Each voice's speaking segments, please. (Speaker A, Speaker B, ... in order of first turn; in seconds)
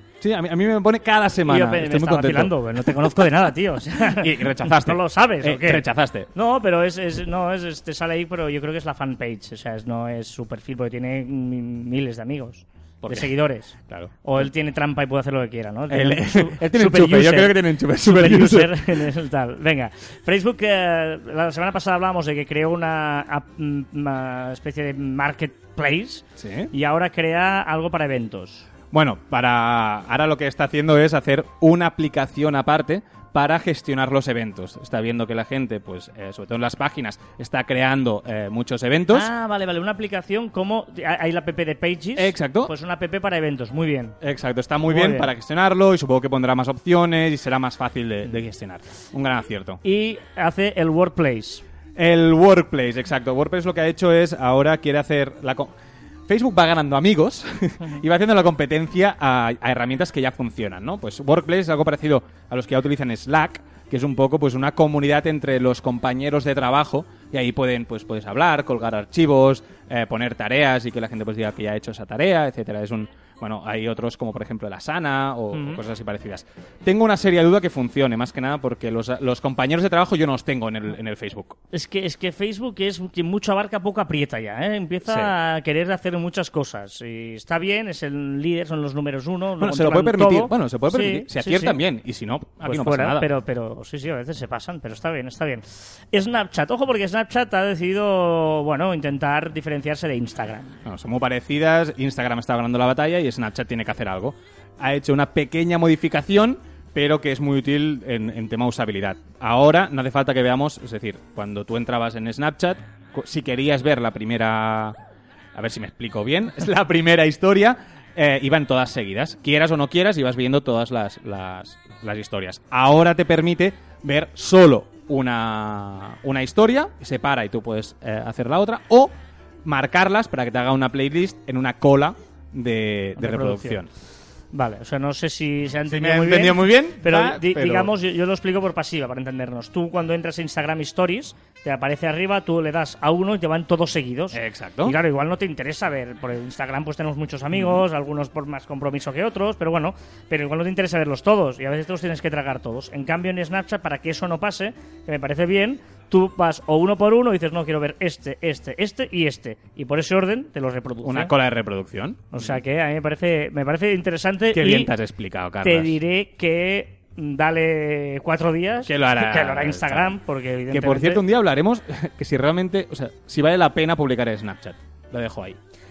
Speaker A: 0.2-3.4, 4.0-6.3, 13.0-13.3, 13.9-14.5, 15.9-19.1, 26.4-26.7, 28.9-39.3, 42.2-42.7, 44.2-49.8, 52.0-55.7, 56.3-81.6, 85.1-85.3, 89.6-93.3, 100.8-115.0, 115.5-129.1, 129.6-133.9, 135.9-137.9, 144.3-144.9, 147.5-147.8, 161.0-162.6, 164.5-166.0, 168.8-170.2, 170.7-175.6
Speaker B: 1.4-28.7, 39.1-44.2, 44.9-45.3, 49.8-51.6, 75.5-75.8, 81.7-91.8, 92.6-100.8, 133.2-133.8, 134.5-161.3, 162.3-164.9, 165.6-171.2